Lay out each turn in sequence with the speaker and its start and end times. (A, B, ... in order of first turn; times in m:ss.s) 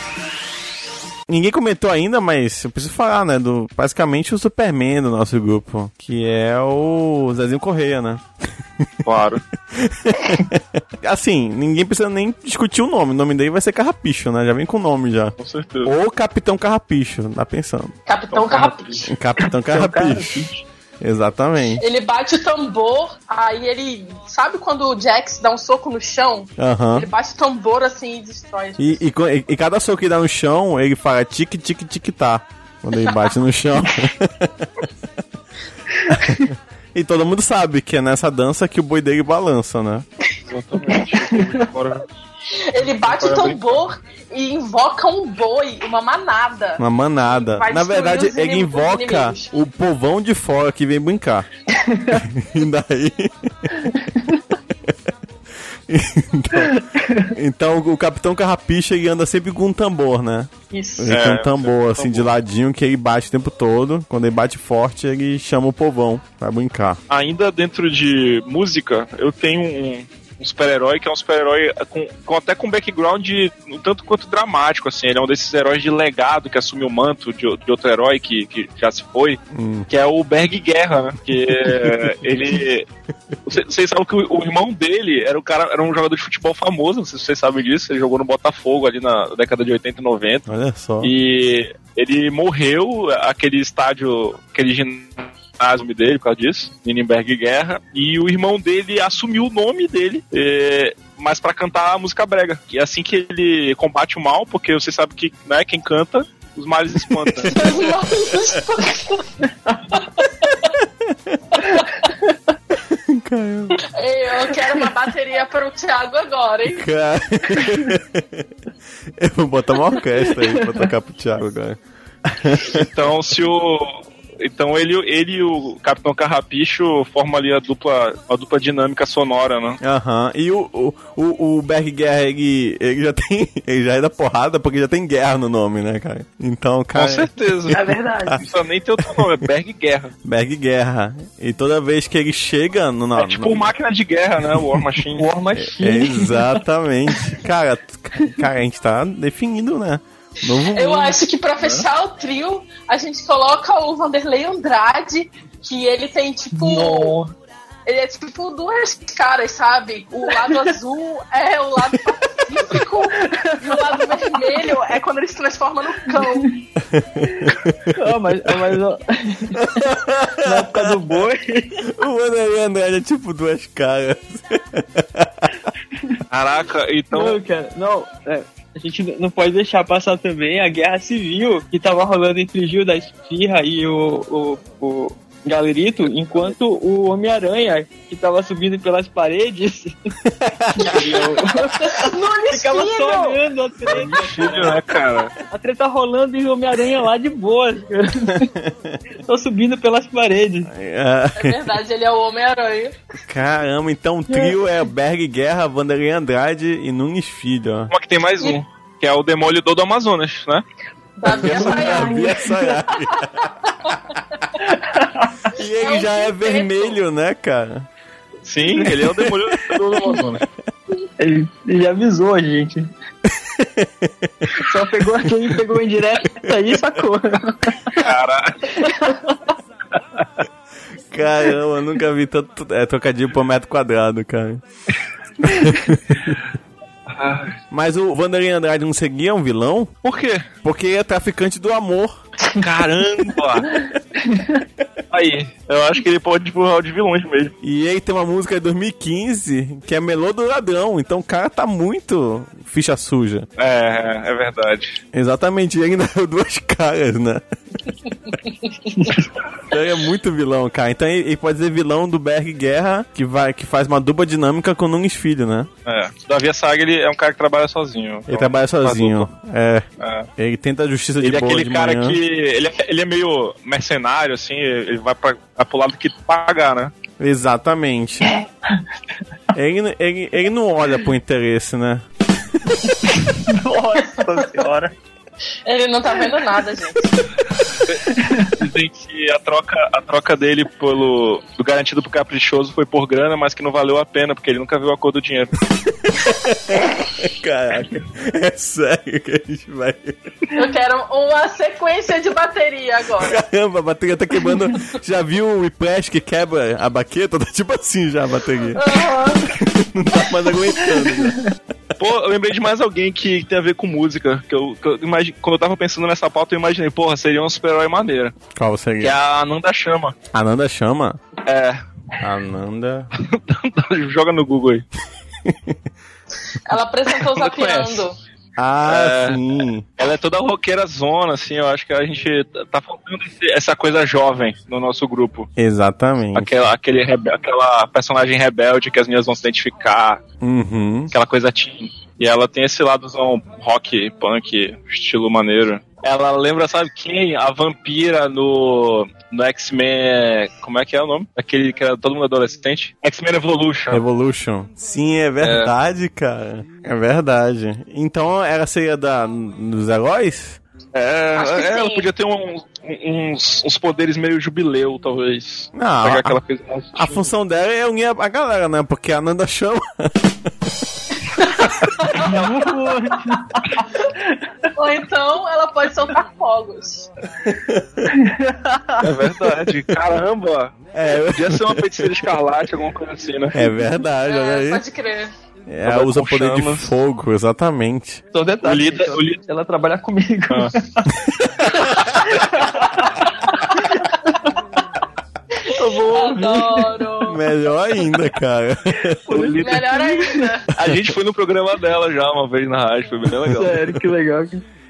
0:01.3-0:08.2 A
0:09.0-0:09.4 B
0:09.9-0:10.5 A
0:11.0-0:15.3 A
0:15.4-0:15.9 B
0:15.8-0:17.9 A
0:18.1-0:19.1 C
0:18.3-0:19.1 B
0:19.1-0:20.5 A
0:19.4-0:20.6 D
0:21.0-0:21.8 A
0:21.8-0:29.0 C
0:26.6-0:27.1 A
0:28.8-0:34.6 A
0:36.1-0:36.4 A
0:36.9-0:40.1 A
0:40.5-0:42.1 B
0:40.9-0:41.6 D
0:42.5-0:49.5 C
0:42.8-0:43.8 B
0:46.8-0:51.5 A
0:51.7-0:52.2 D
0:52.3-0:53.5 A
0:53.9-0:54.4 D
0:55.9-0:56.7 A
0:56.6-0:57.3 D
0:57.3-1:07.0 A
1:00.7-1:01.1 C
1:01.1-1:02.3 B
1:07.1-1:22.9 B
1:19.5-1:19.9 A
1:21.5-1:22.2 A
1:23.5-1:30.5 B
1:30.5-1:31.1 A
1:31.0-1:47.8 B
1:47.5-1:49.2 C
1:49.4-1:49.8 D
1:51.7-1:52.3 D
1:53.1-1:53.8 A
1:53.9-1:56.9 C
1:56.8-1:58.2 A
1:59.2-2:02.9 A
2:00.5-2:00.9 D
2:02.7-2:09.8 B
2:09.8-2:17.8 A
2:16.9-2:20.1 B
2:17.7-2:18.4 C
2:20.2-2:23.7 A
2:23.2-2:25.3 B
2:25.2-2:26.6 D
2:25.6-2:31.2 A
2:30.7-2:37.2 C
2:36.5-2:37.3 D
2:37.9-2:46.6 C
2:43.2-2:44.8 D
2:46.1-2:46.6 D
2:47.2-2:49.8 D
2:49.7-2:51.0 A
2:50.4-2:51.9 D
2:52.0-2:55.3 A
2:56.0-2:56.2 D
2:56.3-2:57.4 B
2:57.1-3:10.1 D
3:10.6-3:11.2 A
3:10.7-3:18.5 D
3:12.0-3:13.4 C
3:13.9-3:15.3 B
3:19.2-3:20.7 D
3:20.7-3:21.8 A
3:21.3-3:23.0 C
3:23.3-3:27.9 A
3:24.3-3:24.6 D
3:27.9-3:30.6 B
3:31.2-3:32.5 C
3:31.3-3:32.8 D
3:31.3-3:33.3 A
3:33.2-3:33.4 C
3:34.6-3:35.5 D
3:35.6-3:37.9 A
3:35.8-3:37.0 C
3:38.4-3:40.4 B
3:38.8-3:39.1 D
3:39.7-3:40.2 D
3:41.2-3:42.9 D
3:43.5-3:44.3 A
3:44.5-3:48.0 D
3:48.0-3:48.8 B
3:48.7-3:49.4 D
3:51.1-3:54.6 A
3:55.5-3:56.3 A
3:57.1-3:57.6 B
3:57.7-3:59.9 A
4:00.0-4:00.5 B
4:00.6-4:02.2 A
4:02.6-4:03.8 B
4:03.7-4:04.6 D
4:05.1-4:07.6 B
4:07.6-4:13.5 A
4:13.6-4:15.0 B
4:15.1-4:17.4 A
4:19.0-4:19.2 D
4:19.7-4:25.7 A
4:25.9-4:29.3 B
4:28.3-4:29.8 A
4:30.0-4:30.3 B
4:30.4-4:32.2 A
4:31.2-4:36.9 B
4:37.2-4:38.3 A
4:39.5-4:42.0 A
4:43.1-4:44.9 D
4:45.7-4:47.1 C
4:47.8-4:55.5 B
4:48.1-4:48.6 D
4:56.1-5:00.2 A
5:00.6-5:03.4 C
5:03.2-5:11.4 A
5:08.7-5:09.5 C
5:10.8-5:11.4 D
5:12.0-5:18.4 B
5:18.5-5:19.1 A
5:19.0-5:20.2 B
5:20.3-5:21.2 A
5:21.4-5:21.8 B
5:22.2-5:23.1 A
5:23.2-5:24.9 B
5:26.6-5:28.2 C
5:27.2-5:28.0 B
5:28.6-5:29.9 A
5:28.8-5:29.4 B
5:30.0-5:35.5 B
5:35.6-5:36.5 A
5:36.3-5:40.2 B
5:40.4-5:41.1 A
5:41.1-5:54.0 B
5:53.9-6:00.6 A
5:55.4-5:55.7 B
6:00.9-6:07.3 B
6:01.4-6:02.1 C
6:05.7-6:06.4 A
6:07.0-6:10.3 A
6:11.3-6:12.3 C
6:12.1-6:14.5 D
6:14.8-6:17.1 C
6:18.1-6:19.6 D
6:19.0-6:23.6 B
6:20.9-6:22.1 A
6:23.5-6:24.8 A
6:24.2-6:25.3 C
6:25.7-6:28.2 A
6:25.9-6:26.9 B
6:28.3-6:31.1 D
6:28.6-6:29.4 B
6:31.8-6:34.4 D
6:35.6-6:37.1 D
6:36.1-6:37.4 C
6:37.2-6:39.2 A
6:39.3-6:40.6 D
6:39.3-6:40.0 B
6:39.6-6:40.7 C
6:40.7-6:43.8 B
6:43.4-6:44.6 D